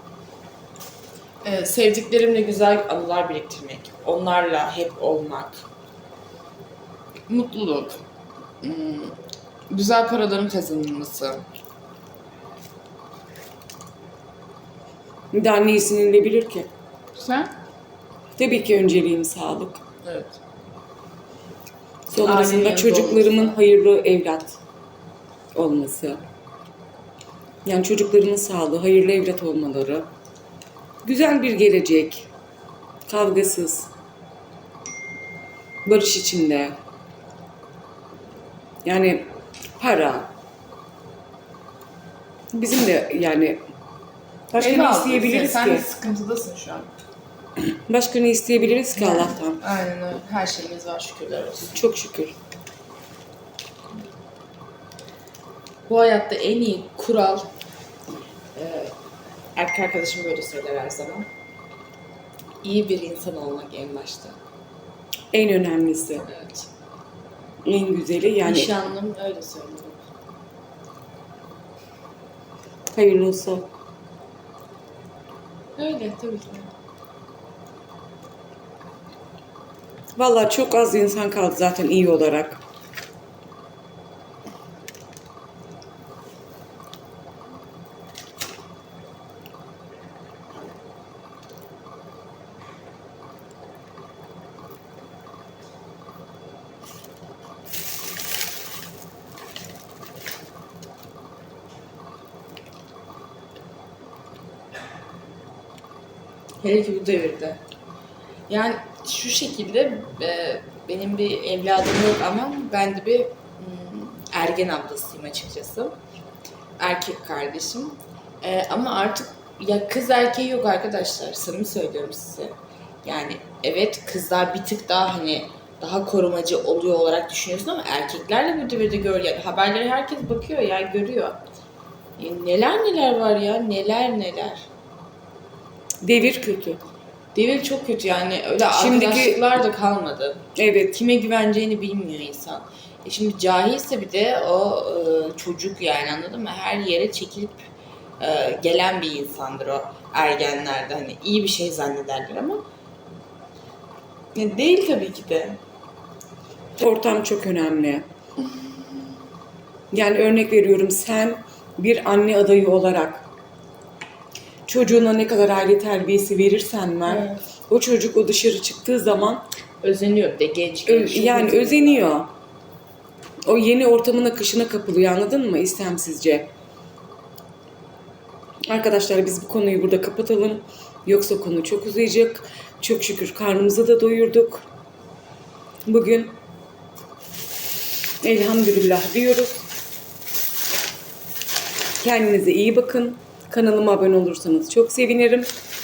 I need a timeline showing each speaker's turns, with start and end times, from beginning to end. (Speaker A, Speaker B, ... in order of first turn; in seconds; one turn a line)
Speaker A: 1.4-5.7
Speaker A: 7.3-8.0
Speaker A: 8.6-9.2
Speaker A: 9.7-11.5
Speaker B: 15.3-16.7
Speaker A: 17.1-17.6
Speaker B: 18.4-19.8
Speaker A: 20.0-20.4
Speaker B: 22.1-24.6
Speaker A: 22.2-23.6
Speaker B: 25.5-26.2
Speaker B: 27.6-30.1
Speaker B: 31.0-32.3
Speaker B: 33.1-33.9
Speaker B: 35.9-36.8
Speaker B: 38.8-40.3
Speaker B: 42.5-43.6
Speaker B: 44.5-45.9
Speaker A: 44.6-46.9
Speaker B: 47.9-49.6
Speaker A: 49.0-51.8
Speaker B: 51.7-52.4
Speaker A: 55.9-57.5
Speaker A: 58.5-58.9
Speaker A: 59.5-61.3
Speaker A: 62.6-64.4
Speaker B: 65.3-66.3
Speaker A: 66.2-66.7
Speaker B: 67.7-68.8
Speaker A: 68.4-70.0
Speaker B: 72.9-73.7
Speaker A: 75.8-76.7
Speaker B: 80.2-82.6
Speaker A: 106.6-107.6
Speaker A: 108.5-116.0
Speaker A: 116.8-131.4
Speaker A: 132.2-134.7
Speaker B: 136.0-136.8
Speaker A: 137.3-147.6
Speaker B: 138.7-139.5
Speaker B: 140.6-141.0
Speaker A: 148.2-152.6
Speaker A: 154.3-155.6
Speaker B: 156.8-158.1
Speaker B: 159.9-163.3
Speaker B: 164.7-169.4
Speaker A: 167.1-167.4
Speaker A: 169.8-172.1
Speaker B: 170.9-172.3
Speaker B: 173.5-176.5
Speaker B: 178.7-184.7
Speaker B: 185.9-186.4
Speaker B: 188.2-189.7
Speaker B: 192.0-195.5